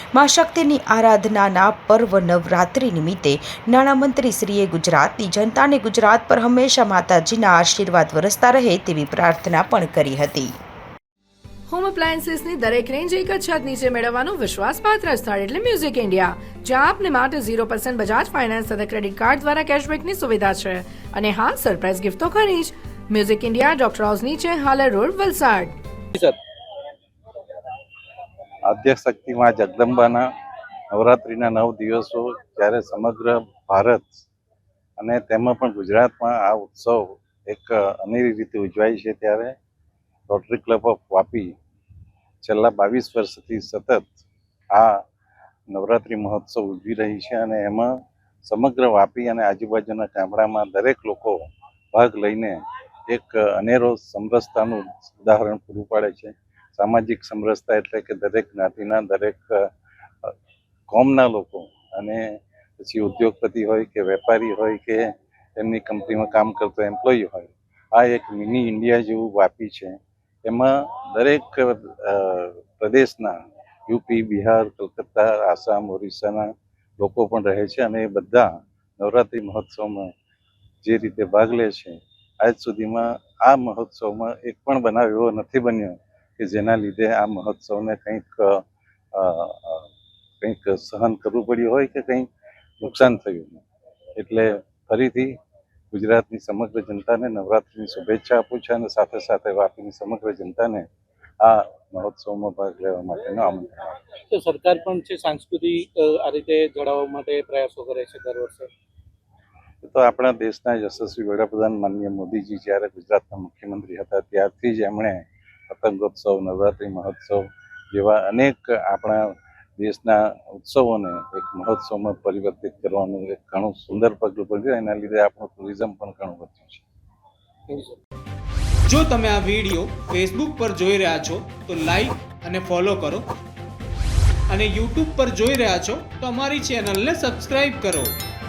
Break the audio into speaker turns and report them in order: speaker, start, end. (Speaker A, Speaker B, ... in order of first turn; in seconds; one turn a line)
Speaker A: 0.1-10.5
Speaker B: 11.7-25.8
Speaker C: 26.1-26.4
Speaker D: 28.7-30.3
Speaker D: 30.9-34.3
Speaker D: 35.0-39.6
Speaker D: 40.3-41.5
Speaker D: 42.4-44.2
Speaker D: 44.8-45.0
Speaker D: 45.7-59.7
Speaker D: 60.9-80.1
Speaker D: 80.8-89.9
Speaker D: 90.4-92.3
Speaker D: 92.8-93.6
Speaker D: 94.2-95.3
Speaker D: 95.9-100.9
Speaker D: 101.4-103.9
Speaker C: 104.3-108.7
Speaker D: 109.8-126.8
Speaker C: 127.7-128.0
Speaker E: 128.9-133.2
Speaker E: 134.5-138.1